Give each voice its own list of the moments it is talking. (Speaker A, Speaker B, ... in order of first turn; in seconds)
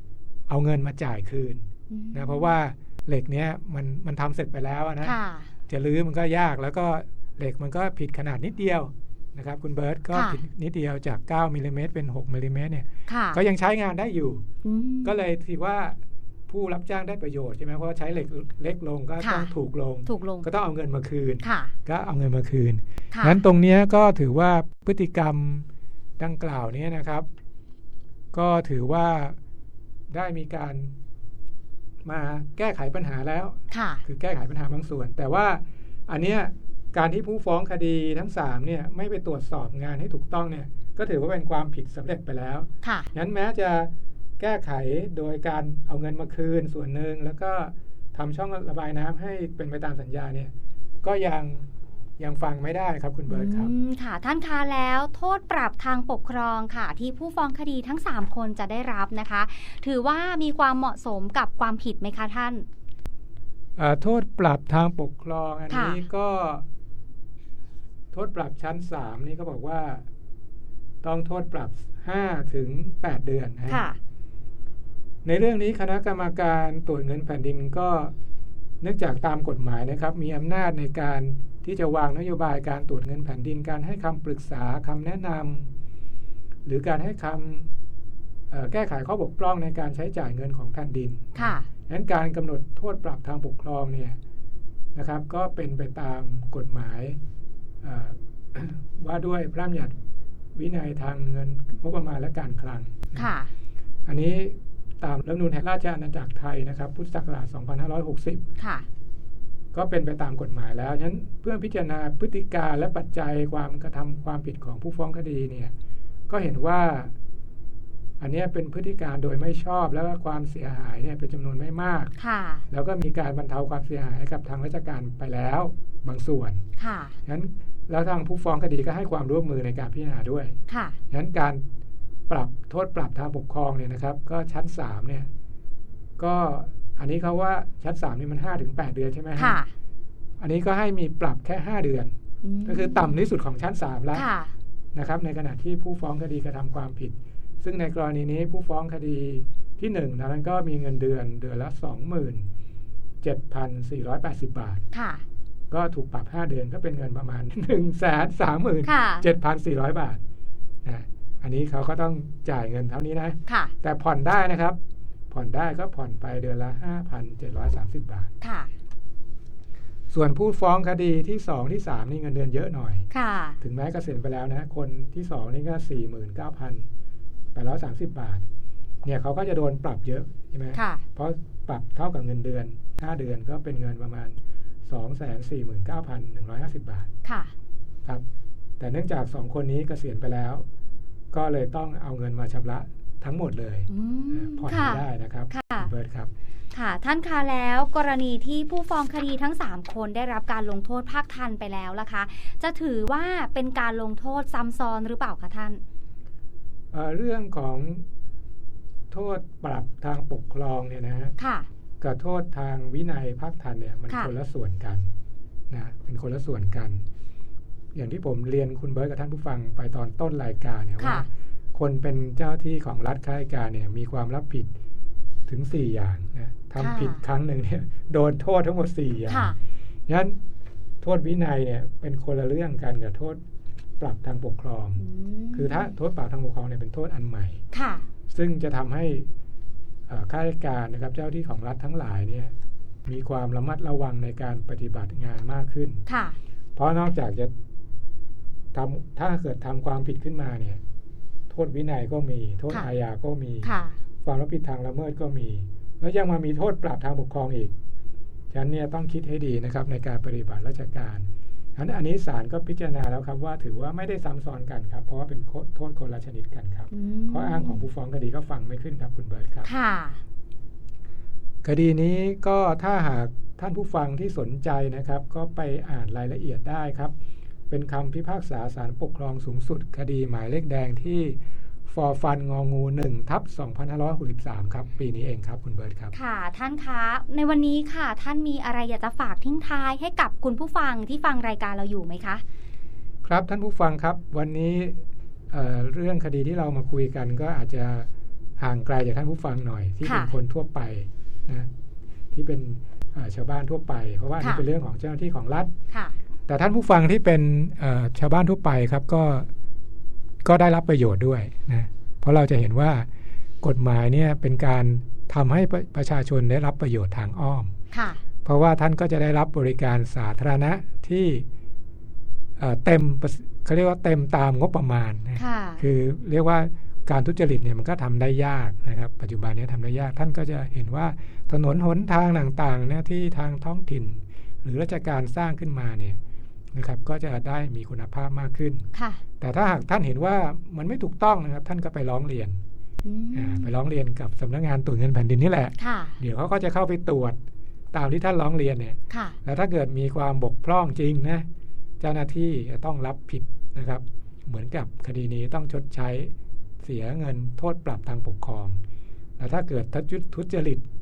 Speaker A: 0.5-5.2, 5.7-14.4, 15.0-16.0, 16.5-25.7, 26.2-27.3, 28.3-29.4, 30.1-30.9, 32.0-50.5, 51.0-51.7, 52.2-53.7, 63.8-66.7, 68.1-70.1, 71.0-73.8, 75.2-78.1, 78.8-85.7, 86.7-87.7, 88.5-94.2, 95.0-97.2, 97.8-100.0, 100.5-103.3, 104.1-108.5, 109.7-115.7, 116.3-117.1, 118.2-122.1, 122.7-126.6, 127.2-130.6, 131.1-131.6, 132.3-135.3, 136.2-139.6, 140.4-142.1, 142.7-144.3, 144.9-152.5, 153.2-154.8, 155.7-160.2, 160.8-164.8, 165.3-168.3, 170.1-173.1, 173.6-176.9, 177.5-178.5, 179.0-187.1, 188.8-190.7, 191.3-196.3, 206.9-208.1, 209.1-211.3, 212.0-215.1, 215.7-217.1, 217.9-224.7, 225.5-229.6, 230.1-230.4, 231.0-233.4, 234.0-235.0, 235.5-237.6, 238.3-239.3, 240.1-242.5, 243.1-246.0, 246.8-247.5, 248.7-250.8, 251.5-253.7, 254.2-257.7, 258.5-269.7, 271.6-277.1, 277.7-286.1, 293.2-301.7, 302.3-305.7, 306.5-309.5, 310.4-313.1, 313.6-317.7, 318.4-321.5, 322.6-336.2, 336.8-338.9, 339.4-342.6, 343.3-347.4, 347.9-351.5, 352.0-358.8, 359.4-360.9
Speaker B: 1.9-2.6, 5.0-5.5, 10.1-10.4, 13.1-13.4, 14.6-15.2, 19.2-19.5, 20.1-20.5, 21.4-21.7, 23.1-23.4, 33.7-34.0, 42.8-43.1, 53.3-62.7, 65.7-66.0, 73.7-74.0, 91.3-91.7, 103.1-103.5, 108.6-108.9, 122.2-122.7, 126.8-127.2, 130.7-131.0, 139.4-139.7, 142.4-143.2, 144.1-144.5, 154.9-155.2, 158.8-159.2, 163.5-163.7, 168.4-168.7, 173.1-173.6, 180.7-181.0, 187.2-187.5, 193.9-195.9, 196.7-205.8, 211.4-211.7, 221.0-221.2, 226.8-227.2, 229.3-229.6, 235.0-235.9, 237.7-238.1, 246.1-246.4, 253.6-254.0, 266.9-267.9, 269.6-270.2, 286.1-292.4, 300.0-300.3, 305.9-306.2, 317.9-318.2, 325.4-325.8, 338.9-339.2, 343.0-343.7, 345.8-346.2, 349.1-349.4